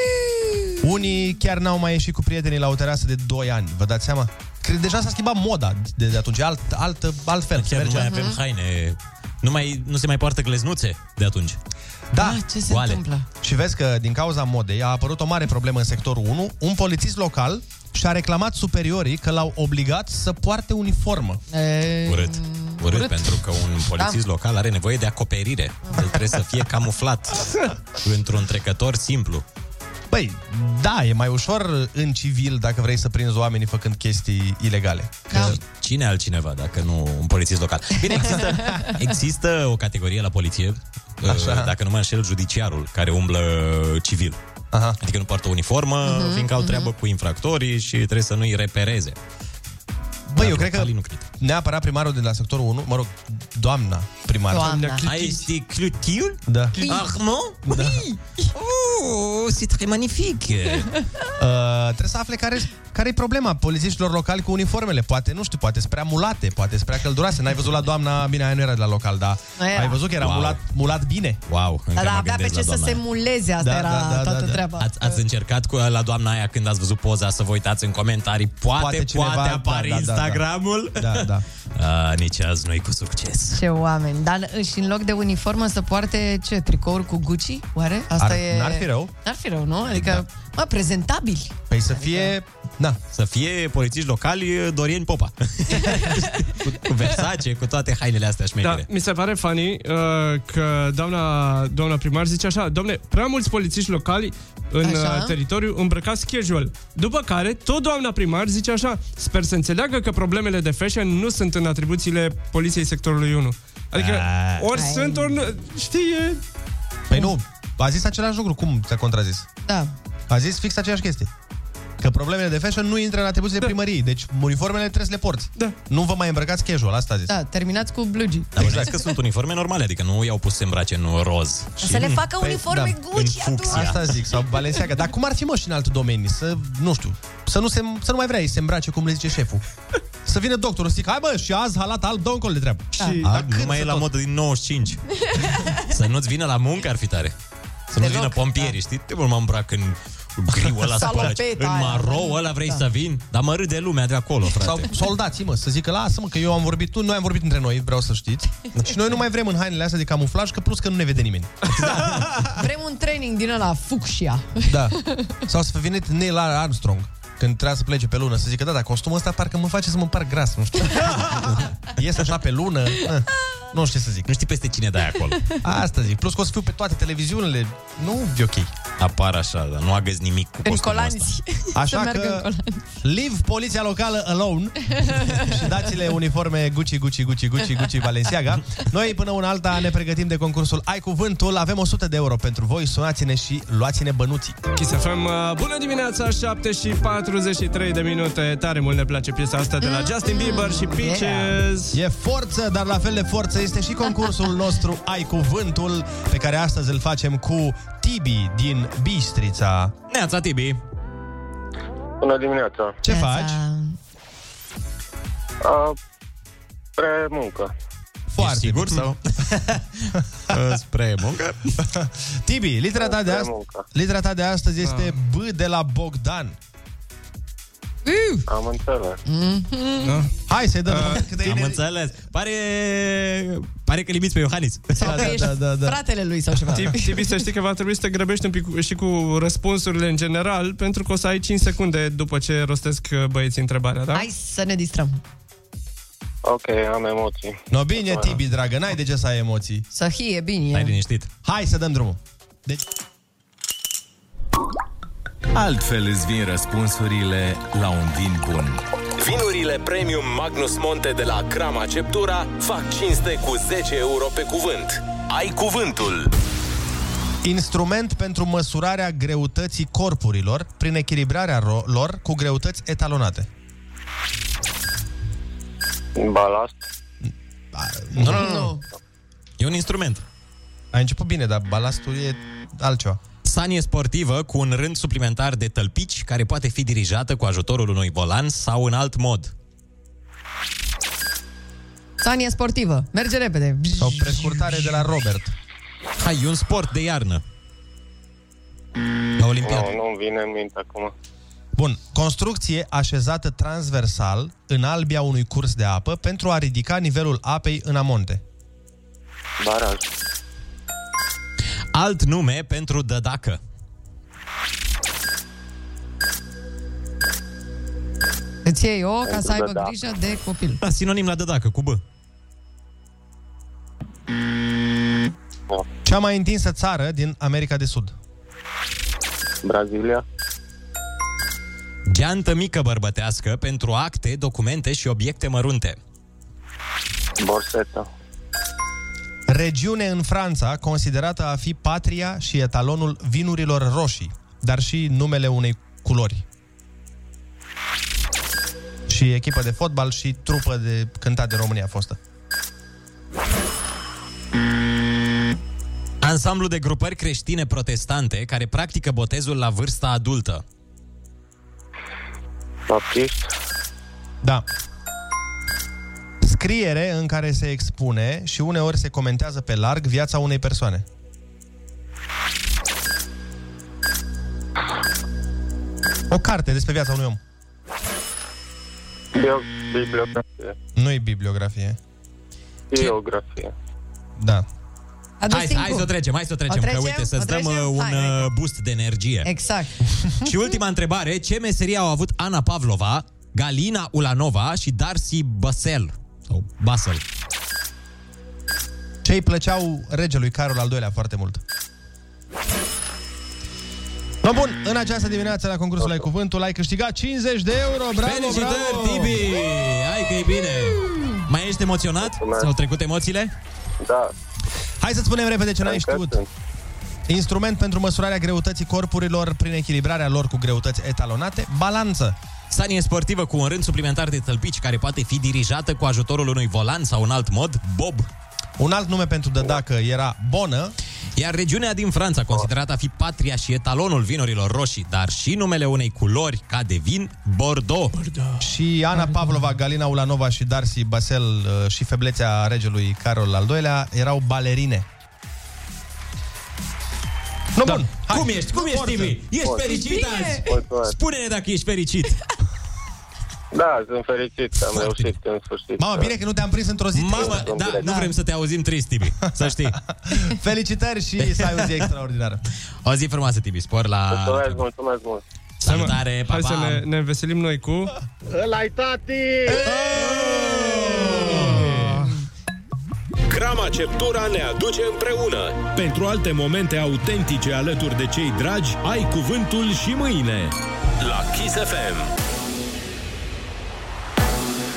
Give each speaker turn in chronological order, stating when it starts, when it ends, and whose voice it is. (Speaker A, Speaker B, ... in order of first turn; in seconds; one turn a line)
Speaker A: 0.8-8.2
Speaker B: 7.6-11.6
Speaker C: 8.0-8.4
Speaker A: 12.1-12.4
Speaker C: 12.2-13.3
Speaker B: 12.7-13.0
Speaker A: 13.4-21.4
Speaker C: 21.5-23.4
Speaker B: 22.1-29.4
Speaker C: 25.9-26.4
Speaker A: 30.1-35.6
Speaker B: 35.3-44.4
Speaker C: 38.2-38.9
Speaker A: 41.2-41.7
Speaker A: 44.7-45.0
Speaker B: 45.0-49.2
Speaker C: 46.0-46.9
Speaker A: 50.3-55.0
Speaker B: 50.4-51.2
Speaker C: 54.5-55.1
Speaker D: 54.7-55.4
Speaker B: 55.0-57.6
Speaker A: 56.5-56.8
Speaker C: 56.8-57.1
Speaker A: 57.6-58.0
Speaker C: 57.7-58.2
Speaker B: 58.5-61.0
Speaker A: 61.4-71.4
Speaker C: 69.6-70.0
Speaker B: 70.2-70.6
Speaker B: 71.5-73.0
Speaker C: 72.0-75.2
Speaker A: 73.6-74.6
Speaker B: 74.8-83.6
Speaker A: 78.8-80.4
Speaker A: 81.0-81.4
Speaker C: 83.5-92.3
Speaker A: 88.2-89.1
Speaker B: 89.9-90.2
Speaker A: 91.7-93.0
Speaker B: 93.1-98.9
Speaker C: 95.8-96.3
Speaker D: 98.6-116.4
Speaker C: 104.8-105.4
Speaker A: 114.0-114.8
Speaker C: 114.7-115.5
Speaker A: 117.1-119.5
Speaker C: 119.7-119.9
Speaker A: 120.3-121.3
Speaker A: 122.0-127.3
Speaker C: 127.3-128.8
Speaker B: 128.6-132.2
Speaker A: 128.6-128.9
Speaker C: 131.8-134.1
Speaker A: 132.4-133.0
Speaker B: 133.1-134.0
Speaker A: 133.7-139.6
Speaker A: 140.2-144.1
Speaker C: 143.0-143.2
Speaker B: 143.3-145.0
Speaker C: 145.3-145.8
Speaker B: 145.8-147.3
Speaker B: 147.9-154.9
Speaker C: 148.0-148.8
Speaker C: 150.9-152.8
Speaker A: 154.6-162.3
Speaker B: 161.8-162.1
Speaker C: 162.5-165.4
Speaker A: 164.7-174.3
Speaker B: 174.3-175.4
Speaker A: 175.6-178.7
Speaker B: 179.0-181.4
Speaker C: 180.6-182.9
Speaker A: 181.8-182.5
Speaker A: 183.0-194.6
Speaker C: 184.9-185.7
Speaker D: 194.8-202.0
Speaker C: 199.8-201.6
Speaker A: 201.9-209.9
Speaker B: 210.1-210.8
Speaker E: 212.2-213.0
Speaker A: 213.0-213.6
Speaker C: 213.1-213.9
Speaker E: 215.6-216.0
Speaker E: 217.0-217.7
Speaker A: 218.3-219.1
Speaker B: 218.4-221.8
Speaker A: 221.9-226.6
Speaker E: 223.0-223.9
Speaker D: 224.8-225.2
Speaker C: 228.1-228.5
Speaker E: 228.5-229.2
Speaker C: 229.3-230.2
Speaker D: 230.0-230.3
Speaker A: 230.5-231.8
Speaker D: 230.9-231.2
Speaker B: 231.3-235.3
Speaker C: 235.0-237.4
Speaker A: 235.0-236.0
Speaker D: 236.7-244.3
Speaker C: 244.1-245.2
Speaker E: 246.4-248.4
Speaker A: 247.7-249.8
Speaker C: 249.9-251.0
Speaker B: 250.7-251.3
Speaker A: 251.4-252.8
Speaker F: 255.5-258.8
Speaker G: 259.2-266.3
Speaker A: 267.4-273.5
Speaker E: 276.2-276.8
Speaker A: 277.2-278.7
Speaker B: 278.2-278.5
Speaker C: 278.2-278.8
Speaker B: 279.6-280.2
Speaker A: 280.9-283.2
Speaker B: 283.4-289.5
Speaker C: 292.2-294.6
Speaker A: 294.0-295.5
Speaker B: 296.2-297.4
Speaker B: 299.4-300.0
Speaker E: 299.6-301.1
Speaker A: 301.8-308.4
Speaker E: 309.6-310.0
Speaker B: 311.9-313.6
Speaker C: 318.6-320.8
Speaker E: 319.3-319.9
Speaker B: 320.8-322.0
Speaker A: 326.1-328.1
Speaker E: 329.6-330.2
Speaker B: 332.1-336.0
Speaker E: 337.4-338.1
Speaker A: 339.5-346.4
Speaker A: 349.1-352.2
Speaker B: 356.2-360.6
Speaker E: 362.9-363.5
Speaker A: 366.4-371.1
Speaker A: 376.3-377.4
Speaker E: 379.4-380.8
Speaker A: 381.0-382.0
Speaker E: 382.9-383.7
Speaker A: 384.4-384.7
Speaker C: 385.4-386.1
Speaker B: 385.5-389.5
Speaker C: 386.7-388.5
Speaker C: 389.4-389.9
Speaker B: 390.4-397.2
Speaker A: 399.2-401.6
Speaker A: 404.4-409.5
Speaker E: 406.0-406.2
Speaker B: 408.2-413.5
Speaker E: 412.2-412.7
Speaker E: 414.0-414.3
Speaker A: 415.0-416.4
Speaker E: 415.8-416.5
Speaker A: 417.3-422.4
Speaker B: 422.7-428.3
Speaker A: 428.8-430.9
Speaker B: 431.4-438.2
Speaker D: 438.2-438.5
Speaker A: 438.6-445.1
Speaker A: 447.8-449.4
Speaker B: 447.9-452.4
Speaker E: 449.6-449.9
Speaker C: 449.8-450.7
Speaker E: 450.6-451.2
Speaker E: 453.7-456.3
Speaker B: 454.9-455.3
Speaker A: 456.0-457.8
Speaker B: 457.1-460.0
Speaker E: 457.3-458.1
Speaker C: 458.0-458.3
Speaker A: 460.3-462.6
Speaker B: 461.4-462.1
Speaker B: 463.0-464.9
Speaker E: 464.3-465.4
Speaker B: 465.8-467.1
Speaker D: 465.8-468.1
Speaker E: 468.5-469.8
Speaker B: 469.7-472.1
Speaker G: 473.5-475.8
Speaker F: 475.8-480.8
Speaker G: 481.2-482.3